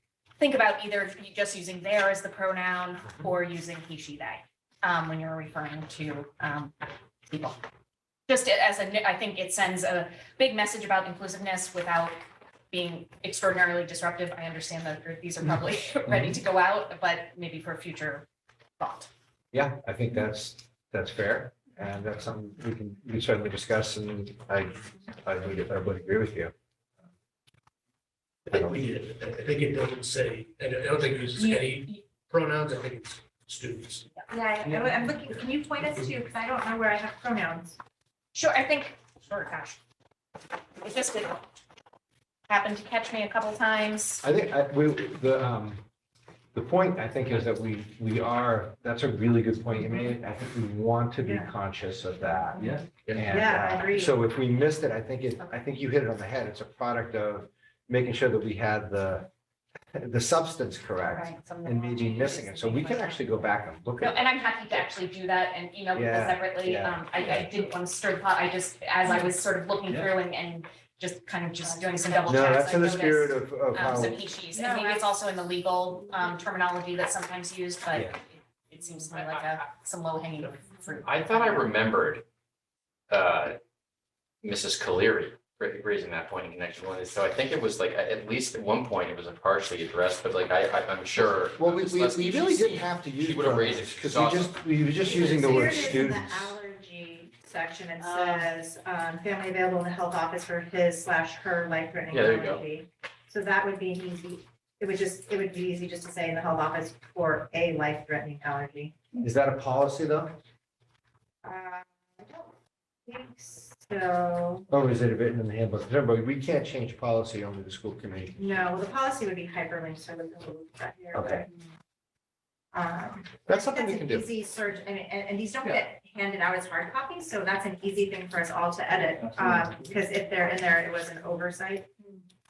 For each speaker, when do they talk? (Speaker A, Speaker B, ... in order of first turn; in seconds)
Speaker A: 0.4-7.6, 8.3-12.2, 12.7-18.2, 18.8-19.1, 31.4-32.0, 38.3-39.8, 40.8-41.4, 42.5-44.2, 61.1-63.4, 64.0-81.7
Speaker B: 16.1-16.4, 19.5-26.5, 28.5-28.8, 44.2-45.8, 46.5-59.3, 59.9-64.8, 65.9-67.5, 72.2-74.2, 91.2-96.5, 109.1-110.4, 114.7-118.6, 121.1-121.5, 123.5-124.3
Speaker C: 28.4-34.0, 34.6-36.1
Speaker D: 34.3-37.8, 51.2-51.5, 53.2-54.1, 95.0-109.0, 111.4-112.5, 113.1-114.7, 118.3-121.5, 122.7-131.9
Speaker E: 52.6-53.3, 81.0-82.2, 83.1-83.6, 84.4-94.6, 102.1-102.6